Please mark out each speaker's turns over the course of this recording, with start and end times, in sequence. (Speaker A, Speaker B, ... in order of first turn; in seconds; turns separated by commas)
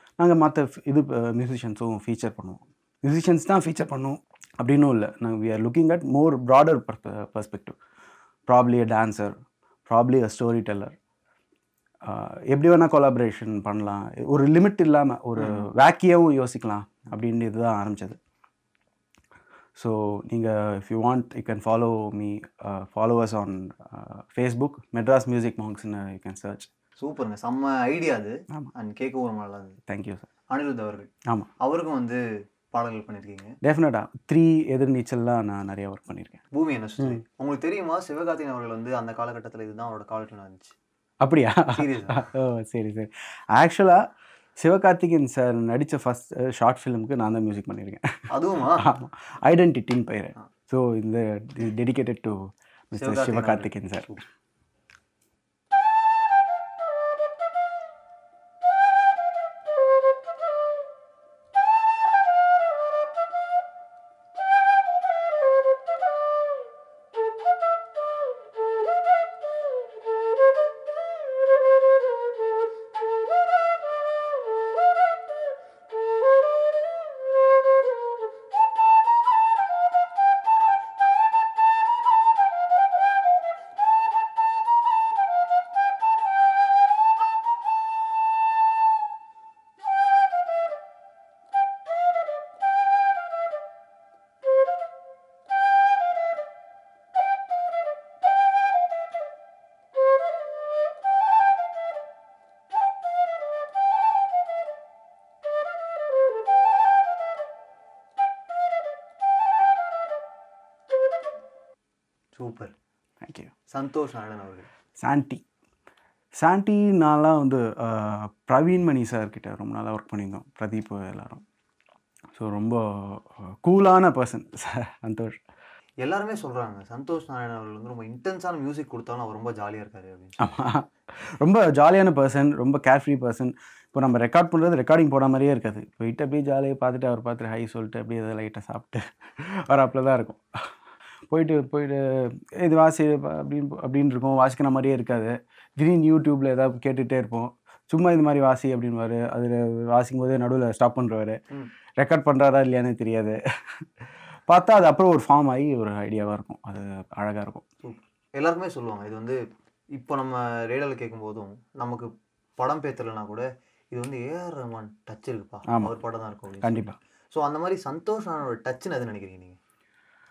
Speaker A: 0.2-7.8, Speaker A: 8.5-9.3, Speaker A: 9.9-10.9, Speaker A: 12.0-18.2, Speaker B: 15.4-15.6, Speaker A: 19.8-26.7, Speaker B: 27.0-29.8, Speaker A: 29.9-30.3, Speaker B: 30.5-33.5, Speaker A: 33.6-36.4, Speaker B: 36.5-40.7, Speaker A: 41.2-44.0, Speaker B: 41.7-42.2, Speaker A: 44.6-48.2, Speaker B: 48.3-48.8, Speaker A: 48.8-52.4, Speaker A: 52.9-54.2, Speaker B: 53.0-54.1, Speaker B: 112.3-112.7, Speaker A: 113.2-113.5, Speaker B: 113.7-114.7, Speaker A: 115.0-115.4, Speaker A: 116.4-121.4, Speaker A: 122.3-125.4, Speaker B: 126.0-130.4, Speaker A: 130.4-140.4, Speaker A: 141.3-151.4, Speaker A: 152.0-153.8, Speaker A: 154.5-157.6, Speaker B: 157.8-159.4, Speaker B: 159.9-169.6, Speaker A: 166.6-167.0